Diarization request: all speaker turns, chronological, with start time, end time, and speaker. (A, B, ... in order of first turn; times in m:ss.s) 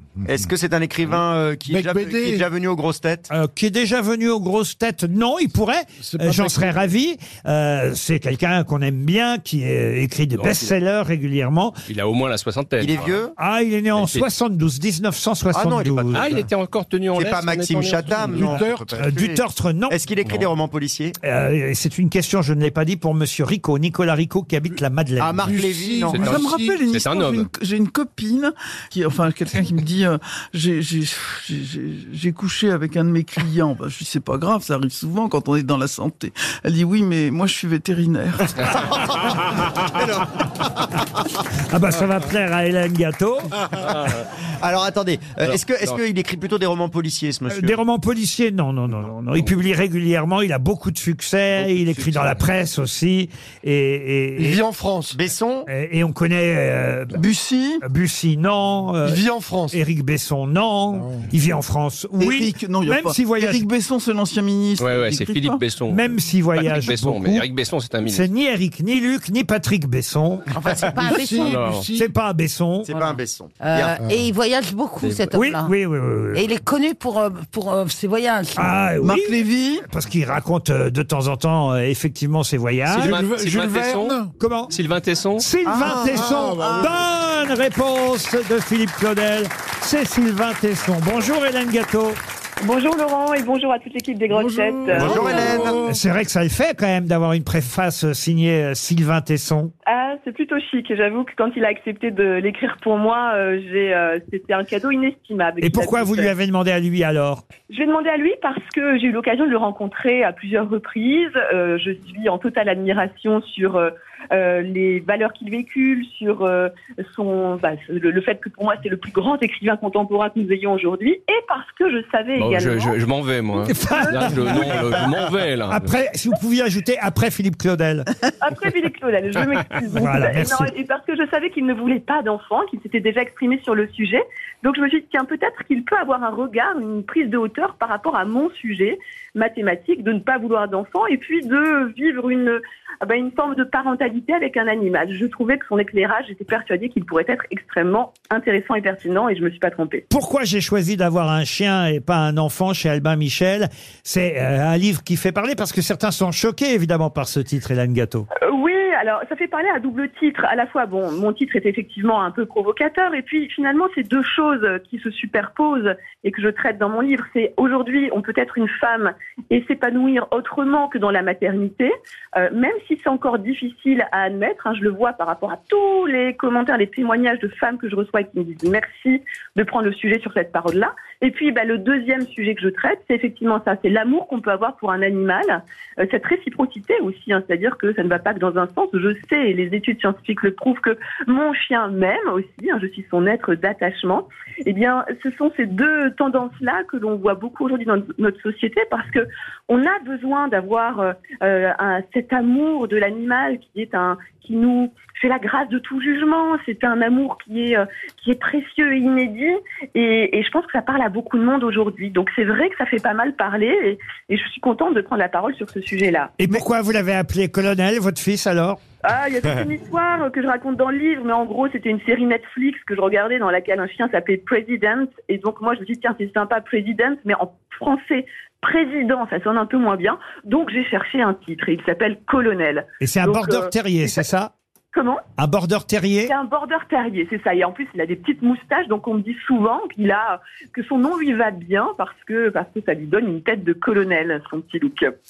0:00.2-0:03.3 A
0:01.7-0:02.5 B
0:03.3-0:11.8 C
0:06.1-0:06.8 B
0:10.4-0:10.7 D
0:11.9-0:13.2 D
0:12.8-0:13.3 A
0:13.4-0:16.4 C
0:13.9-0:14.3 D
0:15.5-0:16.5 A
0:16.0-0:18.6 D
0:17.1-0:21.2 A
0:18.1-0:19.0 B
0:18.4-0:20.0 C
0:21.2-0:25.5 C
0:25.2-0:26.4 A
0:25.5-0:26.8 B
0:26.1-0:27.5 D
0:26.2-0:38.8 E
0:38.7-0:40.7 A
0:41.7-0:43.6 C
0:43.8-0:44.3 D
0:44.6-0:47.8 A
0:45.4-0:46.0 D
0:47.5-0:54.6 C
0:54.4-0:55.1 F
0:55.1-0:55.7 A
0:55.7-0:57.2 C
0:57.1-0:57.8 E
0:57.8-1:03.6 C
0:59.1-0:59.8 F
1:02.2-1:05.6 E
1:04.8-1:06.0 D
1:05.9-1:07.5 C
1:06.6-1:08.3 D
1:08.0-1:10.5 C
1:10.5-1:11.8 G
1:11.0-1:12.1 B
1:11.4-1:11.9 D
1:11.9-1:12.9 C
1:12.8-1:14.0 A
1:12.9-1:15.7 G
1:15.0-1:15.4 D
1:15.3-1:16.4 C
1:16.3-1:18.7 G
1:18.6-1:23.2 C
1:19.0-1:19.9 E
1:22.9-1:24.2 D
1:23.0-1:24.3 B
1:24.4-1:24.8 C
1:24.7-1:25.5 D
1:25.4-1:32.2 C
1:25.6-1:27.0 A
1:26.0-1:26.9 B
1:32.6-1:35.2 F
1:34.4-1:35.9 B
1:34.9-1:35.9 A
1:35.0-1:39.7 C
1:39.8-1:46.3 F
1:45.6-1:47.5 C
1:47.7-2:03.0 F
2:02.4-2:06.0 D
2:03.6-2:04.3 F
2:03.7-2:04.8 C
2:05.7-2:08.1 C
2:08.4-2:30.0 F
2:10.0-2:10.7 C
2:30.1-2:38.3 C
2:38.4-3:36.3 F
3:36.4-3:38.8 C
3:39.0-3:54.3 F
3:53.0-3:54.5 C
3:54.9-3:55.3 F
3:55.4-3:56.3 C
3:56.3-4:05.1 F